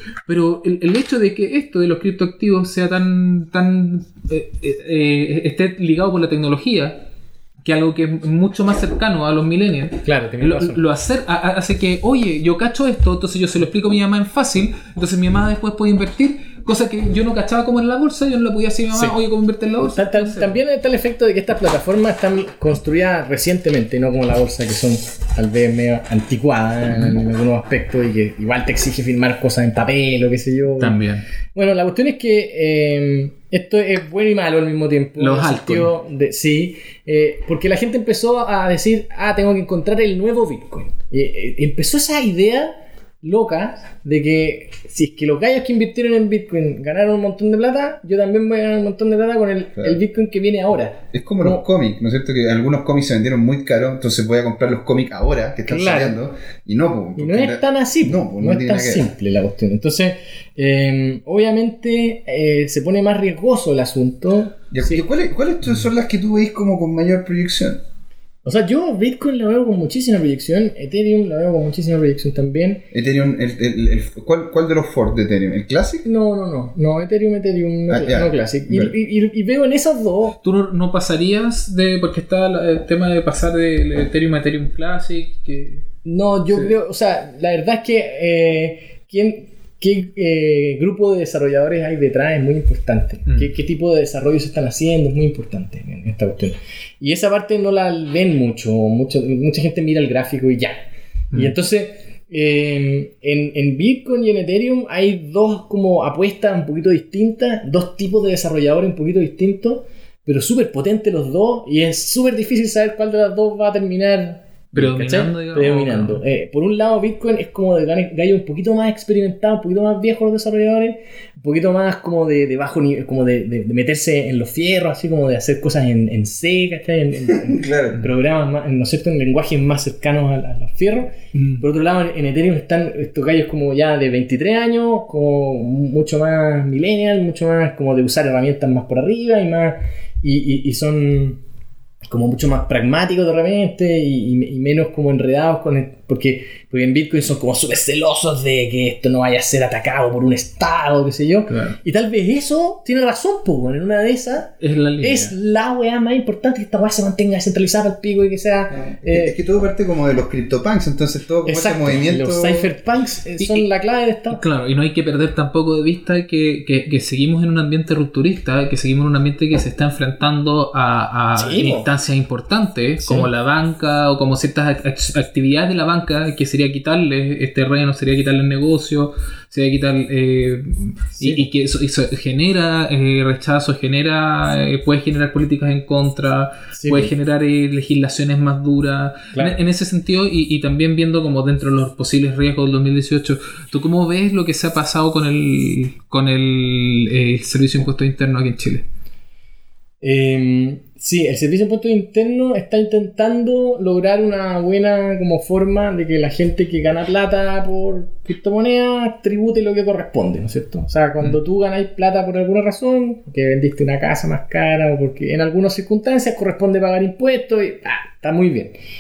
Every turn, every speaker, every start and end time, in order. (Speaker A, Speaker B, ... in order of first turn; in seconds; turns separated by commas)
Speaker A: 0.3-7.0, Speaker A: 7.6-20.5, Speaker B: 10.1-10.8, Speaker B: 18.9-19.2, Speaker B: 19.9-31.0, Speaker A: 30.8-31.3, Speaker B: 31.6-51.6, Speaker A: 35.2-35.9, Speaker C: 51.1-59.1, Speaker B: 55.7-56.2, Speaker B: 57.2-65.1, Speaker C: 64.7-67.8, Speaker B: 68.5-72.8, Speaker C: 72.9-76.1, Speaker B: 76.0-80.4, Speaker C: 77.9-78.9, Speaker A: 80.4-85.8, Speaker B: 86.0-100.8, Speaker B: 101.3-141.4, Speaker A: 114.8-116.2, Speaker C: 127.3-128.0, Speaker A: 131.3-131.6, Speaker B: 142.1-159.4, Speaker A: 151.5-151.8, Speaker A: 154.6-155.3, Speaker C: 159.0-162.7, Speaker B: 161.4-164.4, Speaker A: 163.4-163.7, Speaker A: 164.3-198.8, Speaker B: 171.4-171.9, Speaker B: 173.0-173.3, Speaker B: 181.2-181.4, Speaker B: 186.7-187.1, Speaker B: 200.0-218.8